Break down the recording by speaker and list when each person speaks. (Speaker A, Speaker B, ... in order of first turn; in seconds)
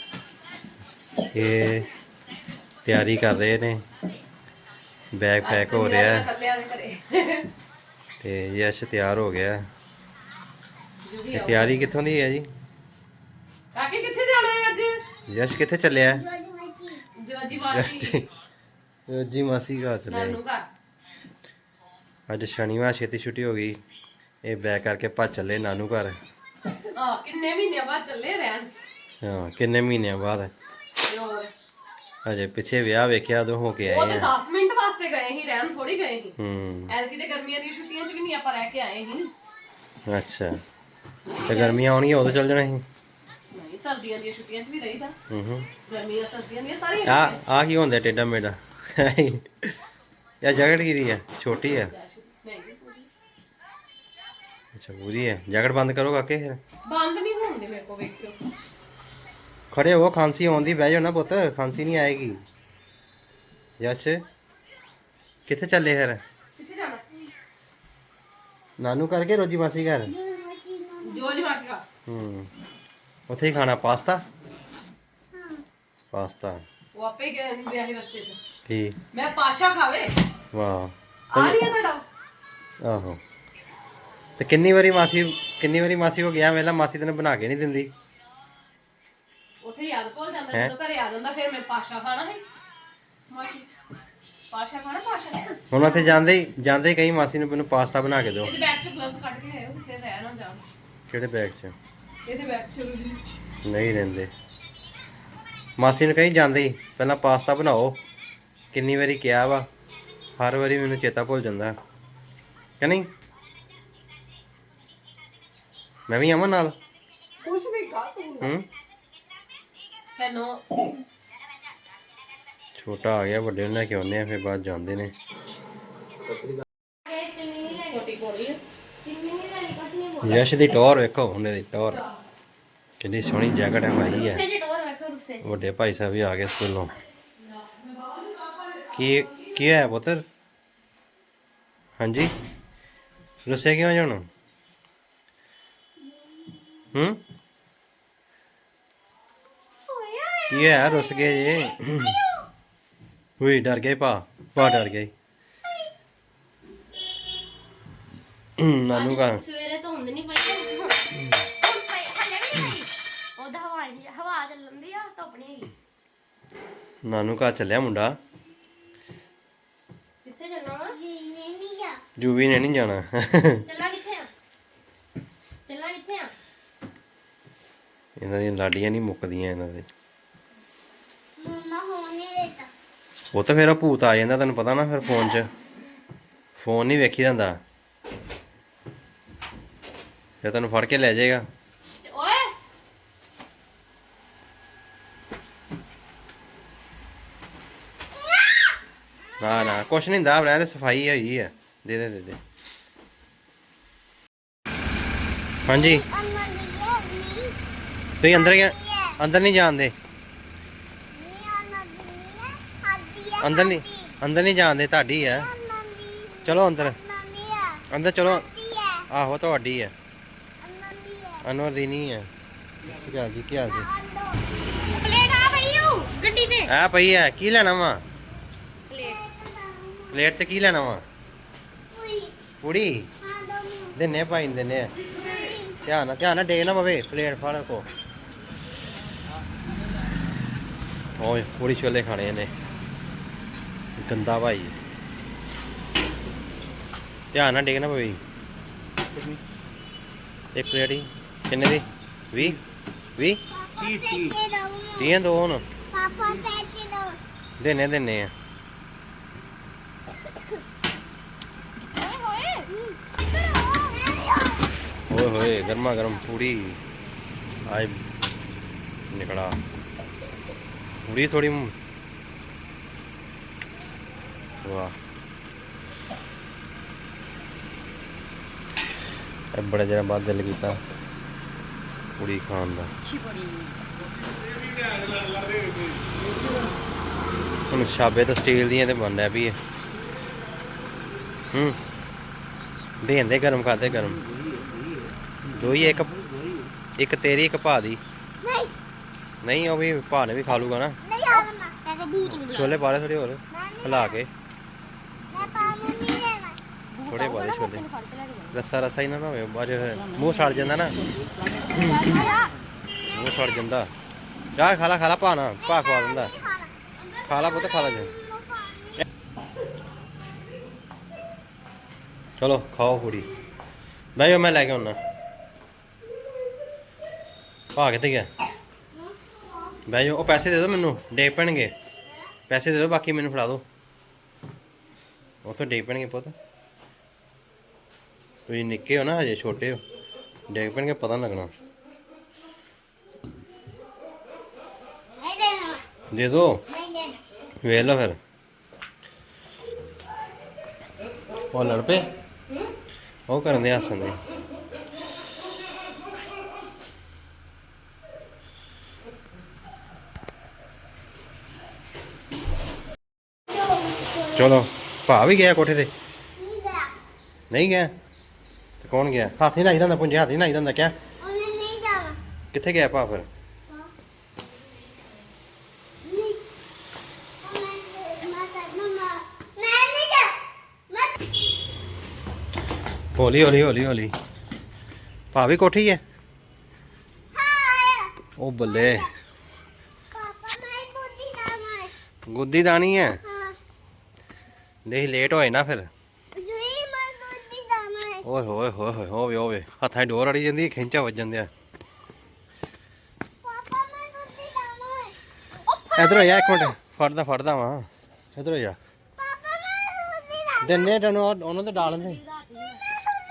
Speaker A: 1.3-1.9, 2.8-3.8, 5.1-6.3, 8.2-9.7, 11.3-12.5, 15.3-16.2, 17.7-18.2, 19.1-20.4, 22.3-23.8, 24.4-26.2, 29.2-30.5, 32.2-34.3, 36.4-36.9, 40.1-40.6, 41.4-42.8, 45.3-45.7, 47.0-49.5, 50.4-51.9, 54.7-56.6, 59.7-62.4, 63.8-64.2, 65.5-66.2, 68.8-70.1, 72.1-72.5, 73.3-74.2, 76.1-76.6, 78.7-79.0, 80.5-81.6, 82.8-83.2, 84.4-87.9, 95.7-98.5, 101.1-101.7, 103.6-104.3, 105.8-108.0, 108.7-109.7, 110.4-111.7, 112.8-113.1, 116.1-116.7, 118.4-118.7, 122.8-125.1, 130.2-132.0, 133.0-134.4, 135.4-136.9, 138.9-140.2, 142.0-142.3, 143.4-144.2, 146.9-147.2, 150.5-152.2, 153.4-155.1, 158.6-159.4, 167.0-168.2, 172.2-173.7, 178.2-179.9, 183.3-185.5, 186.6-187.6, 190.4-191.4, 199.4-202.4, 205.7-206.0, 208.2-209.9, 213.4-215.5, 216.4-217.0, 217.9-218.5, 219.1-219.9, 221.4-222.3, 222.8-223.9, 226.7-228.0, 230.1-231.0, 232.6-233.1, 233.9-234.9, 235.8-237.8, 241.2-242.5, 244.0-244.7, 247.3-248.2, 250.5-252.6, 253.2-253.4, 254.9-255.6, 257.6-258.3, 265.1-266.8, 267.7-268.0, 269.1-269.6, 271.1-271.7, 274.6-274.9, 279.5-280.8, 282.2-282.9, 287.7-289.6, 291.5-291.8, 293.0-294.2, 295.4-296.2, 297.0-298.0, 299.4-301.0, 302.4-304.3, 307.1-307.8, 308.5-311.0, 311.7-312.1, 313.1-313.9, 314.6-316.3, 317.3-318.1, 322.4-323.3, 324.1-325.0, 327.7-328.3, 329.9-331.7, 332.5-333.6, 335.4-336.3, 338.5-339.8, 340.5-341.5, 346.1-346.6, 347.6-348.2, 351.5-352.1, 353.3-354.2, 364.3-365.9, 367.5-367.9, 368.8-370.9, 372.5-373.3, 383.1-384.1, 385.3-386.0, 388.4-389.1, 392.3-393.2, 394.9-395.9, 398.2-401.5, 405.9-408.8, 410.6-412.2
Speaker B: 5.4-7.5, 11.0-11.9, 13.7-15.0, 17.1-18.2, 20.1-20.7, 26.9-28.7, 31.0-31.5, 33.9-36.3, 36.9-39.3, 41.5-41.8, 43.5-45.1, 45.9-47.4, 51.9-53.1, 56.8-58.4, 66.6-67.0, 71.0-71.8, 76.9-78.4, 79.1-80.2, 81.3-82.0, 89.6-92.4, 93.3-93.7, 94.5-96.2, 98.4-100.6, 102.2-103.2, 117.4-118.5, 120.1-120.7, 127.8-128.6
Speaker C: 16.2-17.0, 70.1-71.3, 75.3-75.6, 170.9-172.0, 181.4-182.7, 205.7-207.6, 208.4-209.2, 211.1-214.1, 215.3-219.1, 220.6-221.4, 223.7-224.5, 228.9-230.2, 231.9-232.3, 233.2-233.9, 235.3-235.7, 253.6-255.1, 255.9-257.2, 263.8-264.6, 298.4-298.7, 301.0-301.7, 303.5-304.1, 305.3-306.6, 315.7-316.7, 317.9-319.0, 345.2-345.8, 346.8-347.2, 366.4-366.9, 371.2-372.2, 376.0-376.4, 377.4-381.3, 387.3-388.1, 390.1-391.9, 393.2-393.6, 396.3-398.2, 403.4-405.2, 409.2-410.9
Speaker D: 127.0-128.1, 129.0-130.5, 134.1-135.4, 149.9-151.4, 158.9-165.7, 170.2-171.0, 173.7-174.3, 175.7-176.3, 192.0-192.5, 224.9-226.7, 228.9-229.2, 262.0-262.7, 265.3-266.2, 283.0-283.8, 301.3-302.8, 306.9-308.6, 311.7-312.6, 317.0-317.6, 405.7-406.6, 411.7-412.8